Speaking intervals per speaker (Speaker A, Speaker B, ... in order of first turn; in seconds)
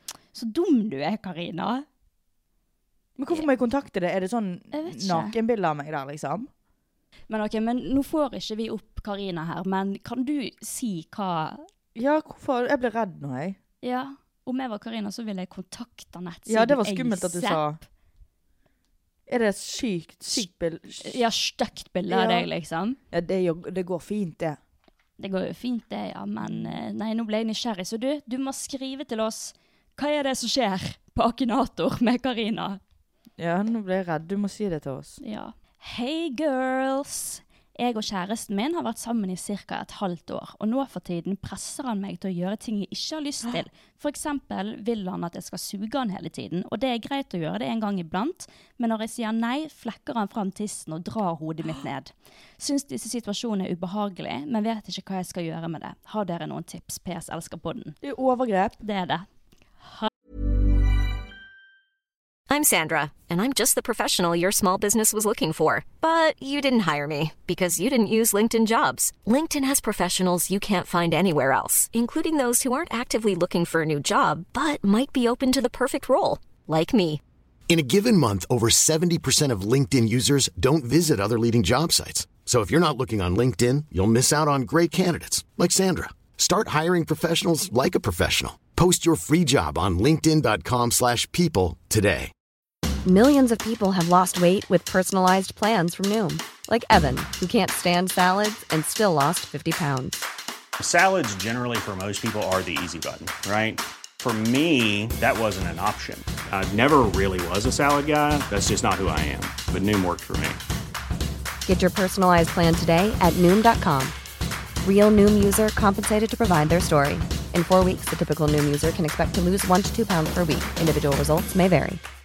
Speaker A: 0.3-1.8, 4.7-5.3, 7.3-11.7, 13.8-17.6, 21.0-23.0, 25.2-32.8, 35.2-58.0, 58.8-59.2, 59.8-60.1
Speaker B: 3.2-6.5, 11.9-13.6, 16.5-17.8, 19.3-21.2, 22.1-22.5, 23.1-24.6, 26.4-26.8, 33.4-35.2, 58.0-58.8
Speaker C: 62.5-77.2
Speaker D: 77.7-92.3
Speaker E: 93.0-100.3, 111.6-114.2, 114.8-122.0
Speaker F: 100.8-110.6